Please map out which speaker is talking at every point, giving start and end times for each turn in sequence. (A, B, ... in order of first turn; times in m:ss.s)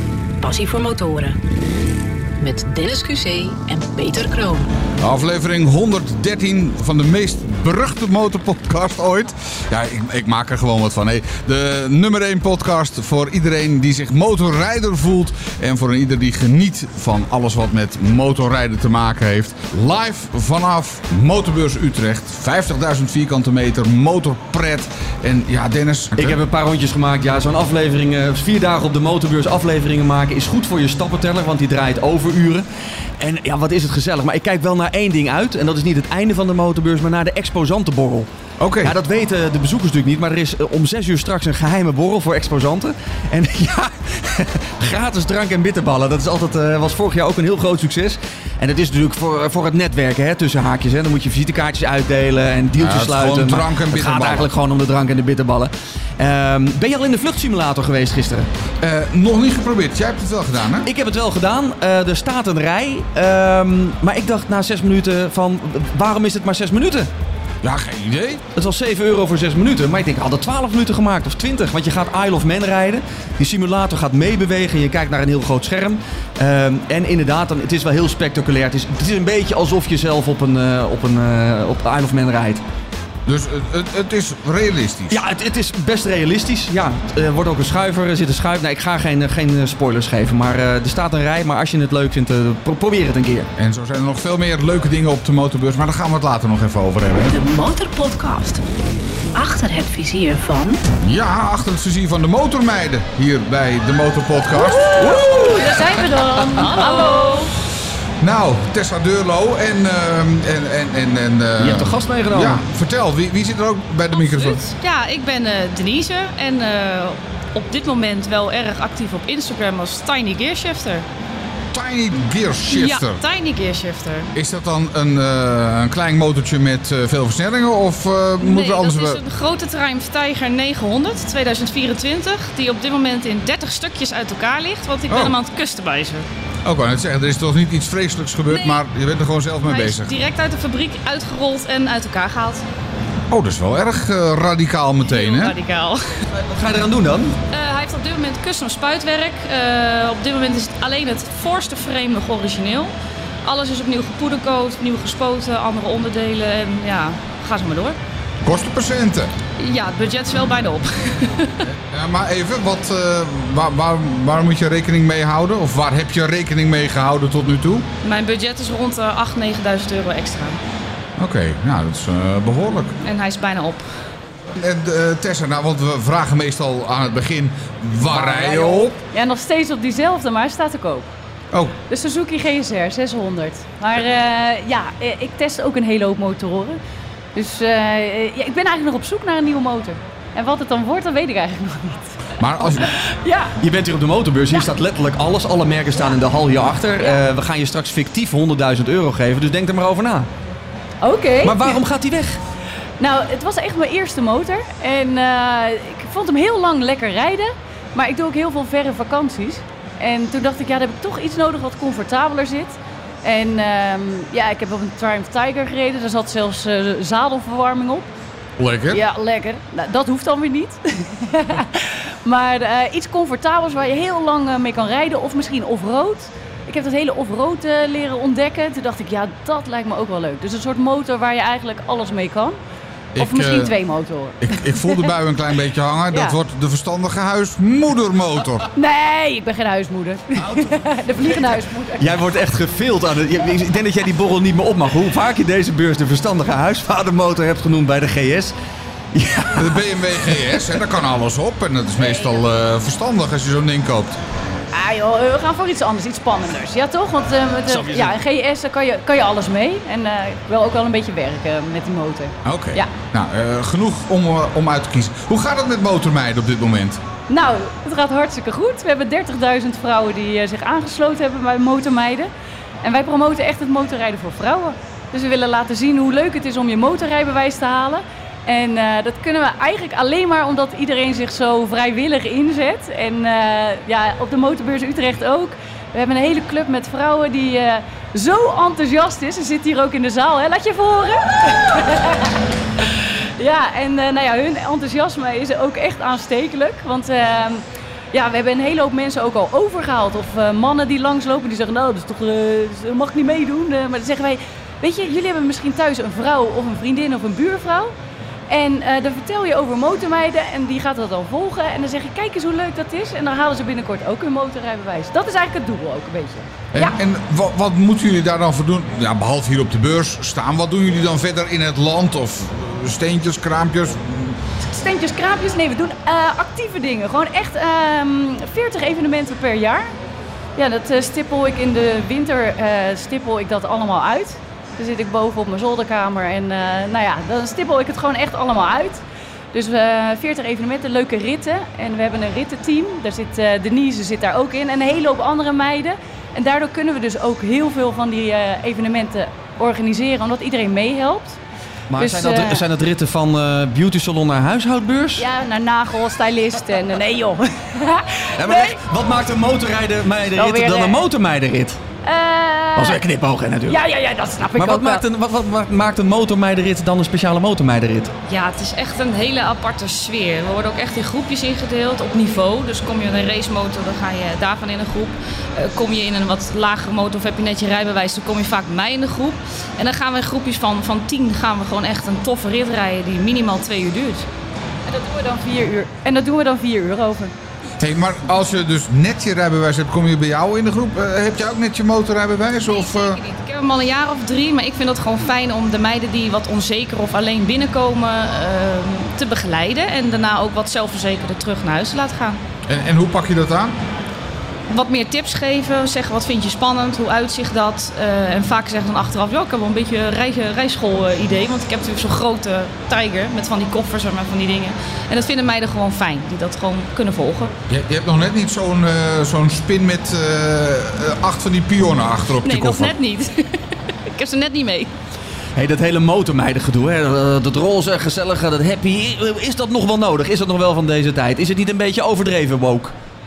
0:00.4-0:01.4 A
0:02.4-0:04.7 A
0:05.0-0:26.4 B
0:26.2-0:32.6 C
0:33.2-0:38.3 C
0:38.6-0:39.0 B
0:38.8-0:58.5 C
0:52.8-0:54.5 B
0:58.8-1:00.9 B
1:00.8-1:07.1 C
1:07.6-1:08.4 B
1:08.5-1:22.6 C
1:23.2-1:25.2 B
1:25.1-1:33.5 C
1:33.6-1:37.4 B
1:37.3-1:38.6 A
1:39.3-1:40.8 A
1:41.0-1:46.1 B
1:44.5-1:47.5 D
1:45.2-1:45.5 C
1:46.5-1:47.5 E
1:46.6-1:46.9 B
1:48.2-1:54.6 B
1:51.6-1:52.6 C
1:54.1-2:01.0 E
2:01.7-2:03.2 B
2:02.7-2:04.3 E
2:04.3-2:09.2 B
2:08.4-2:16.2 E
2:15.1-2:15.4 B
2:16.6-2:20.2 B
2:18.5-2:18.8 E
2:19.6-2:22.6 E
2:23.3-2:25.6 B
2:25.0-2:26.3 E
2:26.4-2:27.4 C
2:27.5-2:32.9 E
2:33.4-2:38.0 E
2:38.4-2:39.3 B
2:39.6-2:41.7 E
2:41.7-2:47.8 B
2:48.0-2:50.6 E
2:51.2-2:53.0 B
2:53.0-2:54.0 E
2:54.5-2:59.0 B
2:58.1-3:01.1 D
3:01.9-3:06.8 D
3:07.3-3:13.6 D
3:12.4-3:12.9 B
3:13.6-3:20.3 C
3:21.0-3:21.8 D
3:21.4-3:22.4 C
3:23.0-3:38.1 D
3:38.6-3:39.0 B
3:38.9-3:52.6 D
3:53.1-3:53.7 B
3:53.2-3:55.1 D
3:54.4-3:58.7 B
3:58.8-4:02.1 D
4:00.4-4:08.5 C
4:09.1-4:10.6 C
4:09.5-4:14.2 B
4:12.0-4:12.4 D
4:14.7-4:22.9 D
4:17.7-4:18.1 C
4:22.4-4:27.0 B
4:27.3-4:32.3 D
4:32.8-4:52.4 D
4:52.9-5:07.9 D
5:08.5-5:17.0 D
5:16.7-5:24.4 B
5:24.6-5:29.9 D
5:30.6-5:51.4 D
5:51.9-5:55.2 C
5:52.0-5:52.6 D
5:55.2-5:58.8 D
5:58.4-6:01.8 C
6:00.3-6:01.0 D
6:02.0-6:03.0 D
6:02.8-6:03.8 C
6:03.7-6:05.0 D
6:04.6-6:08.1 C
6:08.3-6:24.2 E
6:24.8-6:27.3 D
6:27.8-6:33.2 B
6:32.7-6:42.4 E
6:42.7-6:43.7 B
6:44.7-6:57.5 E
6:57.7-7:03.0 B
7:02.4-7:04.9 E
7:05.6-7:12.9 C